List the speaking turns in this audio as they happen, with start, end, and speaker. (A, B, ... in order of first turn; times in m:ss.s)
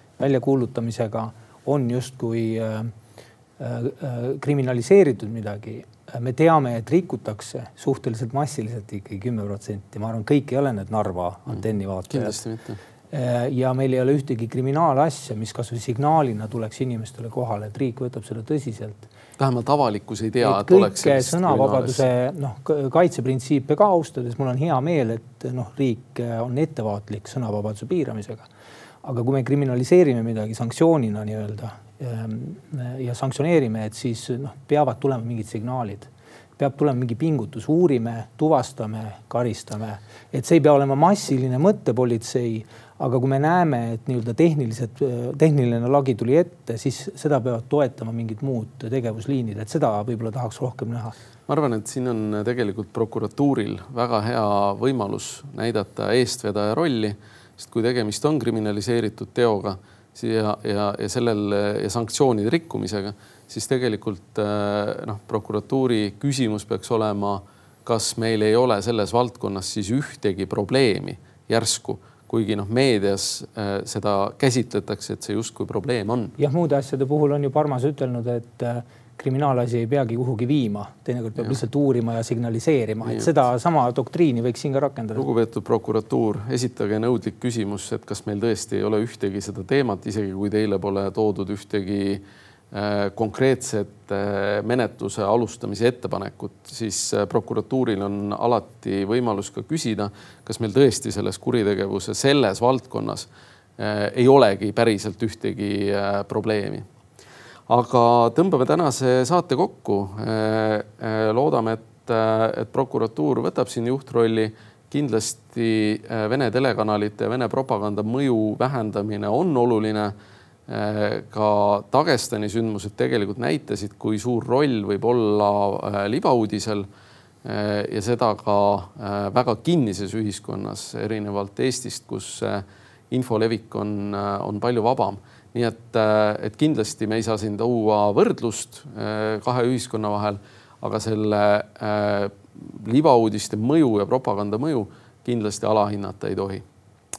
0:00.2-0:02.9 A
0:03.6-0:12.4 A
0:12.1-0:12.8 B
0:13.1-0:19.1 A
0:19.4-0:22.1 B
0:20.4-0:28.5 A
0:29.0-0:51.1 A
0:51.5-1:16.4 B
1:16.4-1:25.2 A
1:23.0-1:23.3 B
1:25.2-1:46.9 B
1:47.7-2:00.1 B
2:00.7-2:06.9 B
2:07.4-2:26.7 B